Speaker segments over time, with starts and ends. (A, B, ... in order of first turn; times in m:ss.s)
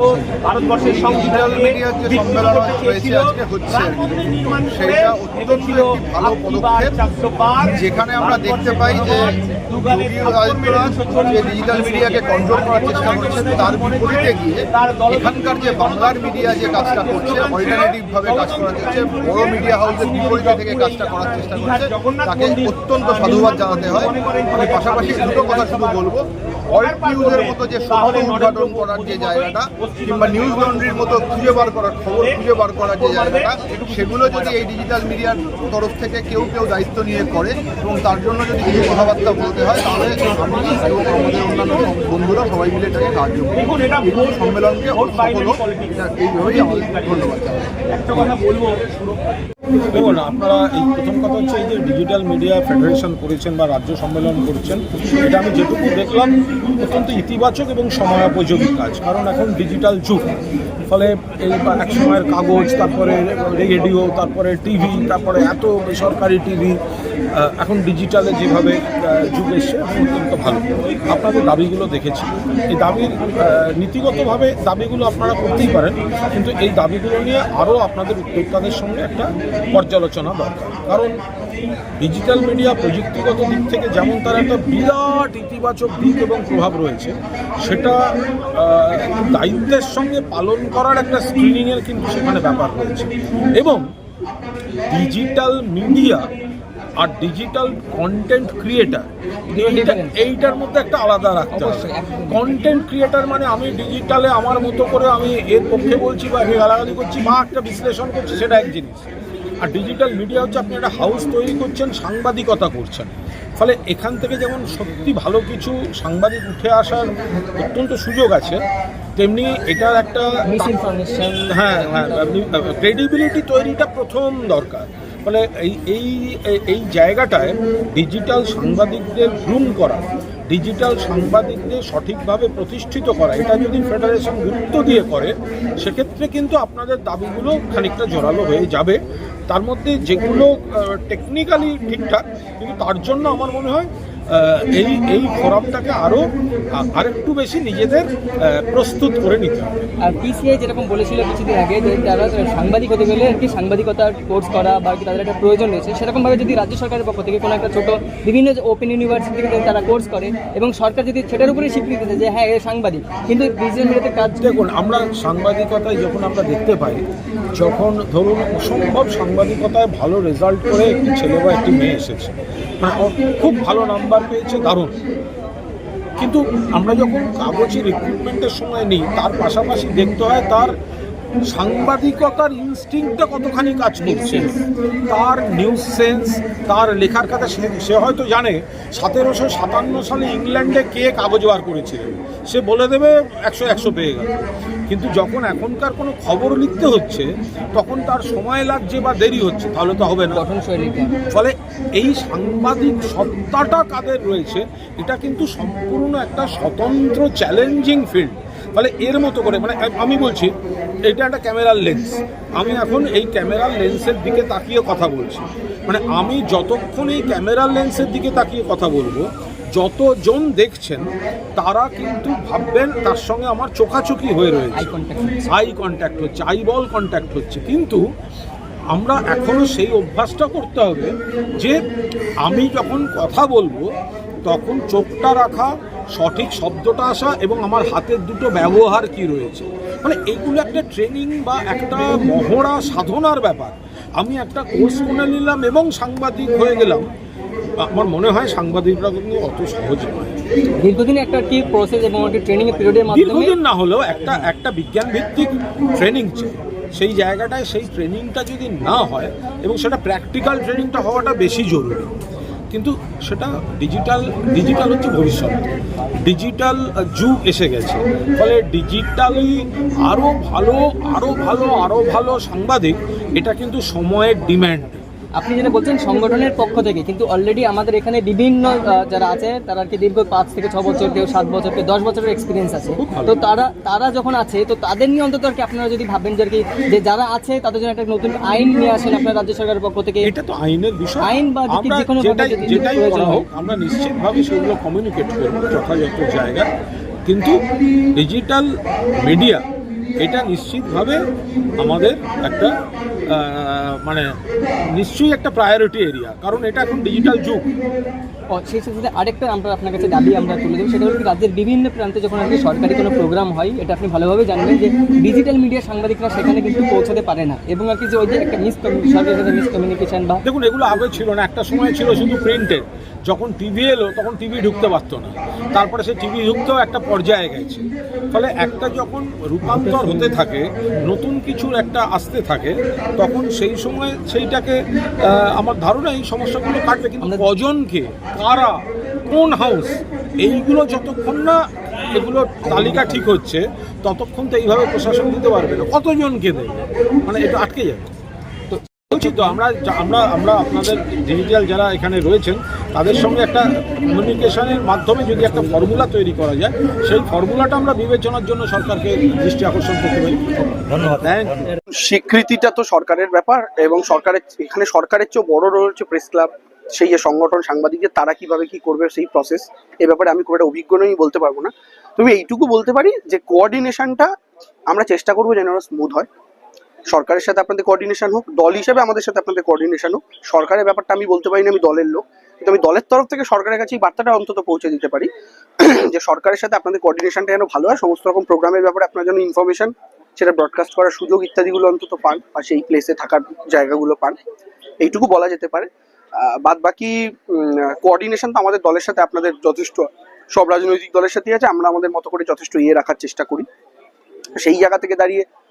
0:00.3-0:01.0 A
0:00.8-0:07.0 B
0:02.3-0:03.0 A
0:07.1-0:07.5 A
0:07.6-0:48.4 B
0:12.8-0:13.3 A
0:17.1-0:17.6 A
0:23.3-0:23.7 A
0:24.3-0:25.6 A
0:48.5-0:48.9 A
0:49.9-1:00.3 C
1:00.9-1:06.8 C
1:07.3-1:21.2 C
1:22.0-1:28.0 C
1:28.6-1:33.8 C
1:34.9-1:36.3 C
1:37.0-1:58.6 C
1:39.5-1:40.3 D
1:41.5-1:42.6 D
1:59.2-2:00.7 C
2:00.5-2:02.4 D
2:01.5-2:29.8 C
2:30.0-2:44.5 D
2:44.4-2:47.0 C
2:47.6-2:54.9 C
2:56.2-3:00.7 C
3:01.5-3:04.5 C
3:04.0-3:04.6 D
3:05.1-3:14.3 C
3:14.9-3:20.4 C
3:20.3-3:21.2 D
3:21.3-3:30.5 C
3:31.1-3:41.0 C
3:41.6-3:44.9 C
3:44.7-3:45.6 D
3:45.5-3:48.0 C
3:48.9-3:51.8 C
3:52.4-3:53.9 C
3:54.4-4:07.1 C
4:07.8-4:10.4 C
4:10.8-4:13.6 D
4:13.1-4:22.1 C
4:22.7-4:25.7 C
4:26.2-4:35.0 C
4:35.4-4:50.3 D
4:43.0-4:43.4 C
4:50.2-4:56.7 C
4:51.2-4:53.5 D
4:57.3-4:57.6 C
4:58.2-4:59.6 C
5:00.2-5:01.2 C
5:01.8-5:02.7 C
5:03.3-5:04.3 C
5:05.0-5:07.6 C
5:08.5-5:20.4 D
5:20.4-5:41.6 C
5:30.0-5:30.3 D
5:42.1-5:48.1 C
5:42.6-5:43.2 D
5:48.7-5:49.4 D
5:49.1-6:01.8 C
6:02.0-6:14.3 E
6:14.9-6:16.3 E
6:17.1-6:25.3 E
6:25.8-6:34.4 E
6:35.0-6:43.7 E
6:44.6-6:45.5 E